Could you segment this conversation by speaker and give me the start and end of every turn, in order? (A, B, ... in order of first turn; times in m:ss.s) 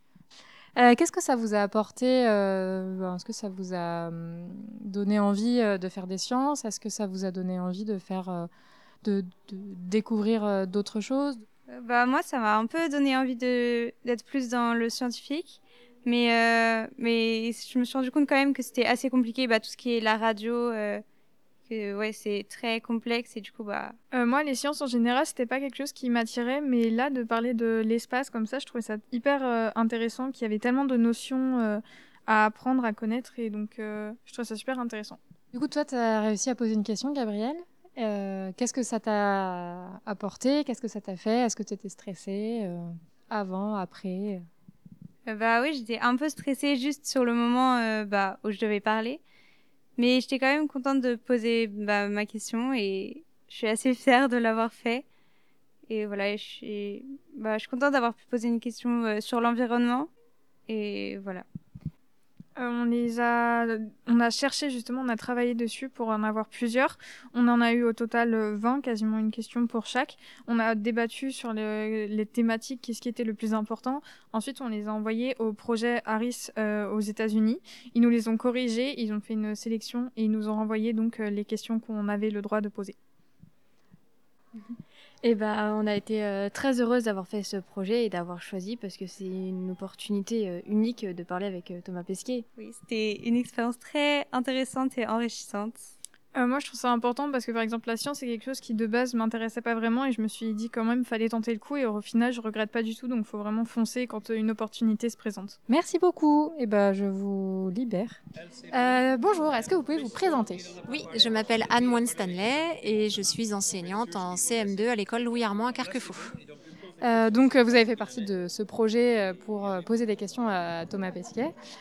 0:00.8-0:08.5 A
0:09.0-0:11.5 A
0:11.7-0:21.0 B
0:21.7-0:24.0 B
0:24.1-0:35.2 C
0:35.5-0:44.5 A
0:45.3-0:49.2 B
0:50.0-0:55.0 B
0:55.9-1:00.1 B
1:00.7-1:01.5 B
1:02.6-1:23.0 C
1:25.2-1:32.5 D
1:32.6-1:35.9 B
1:36.4-1:45.6 C
1:45.7-1:48.2 A
1:48.7-1:50.8 A
1:50.9-1:56.4 E
1:57.0-2:01.5 A